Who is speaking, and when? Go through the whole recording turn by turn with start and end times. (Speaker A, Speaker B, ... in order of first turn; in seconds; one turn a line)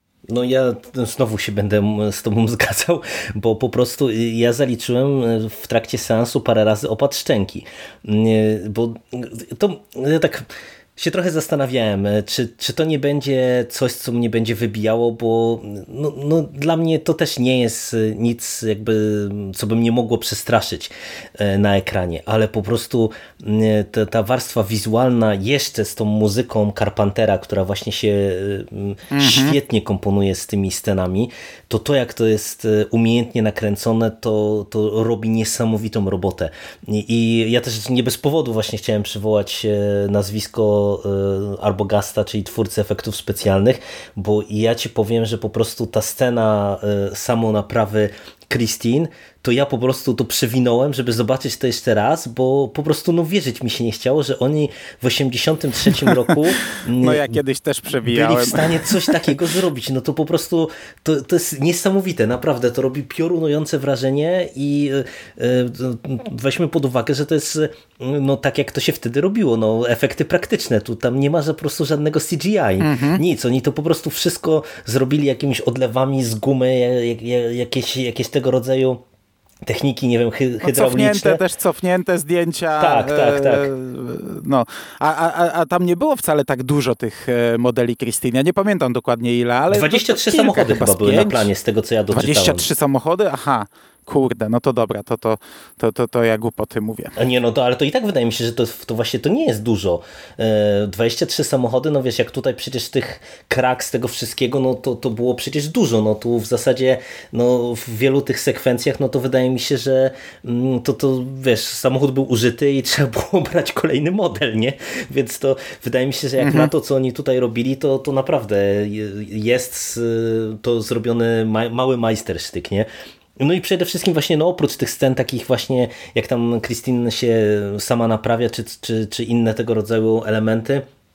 Speaker A: 0.3-57.3
Speaker B: 29.1-29.6
Speaker B: 57.0-59.3
Speaker A: 58.0-79.0
Speaker B: 72.8-73.2
Speaker A: 79.6-81.4
Speaker B: 80.6-91.5
Speaker A: 82.8-83.7
Speaker A: 89.7-92.7
Speaker B: 92.1-97.1
Speaker A: 97.2-130.9
Speaker B: 116.4-116.7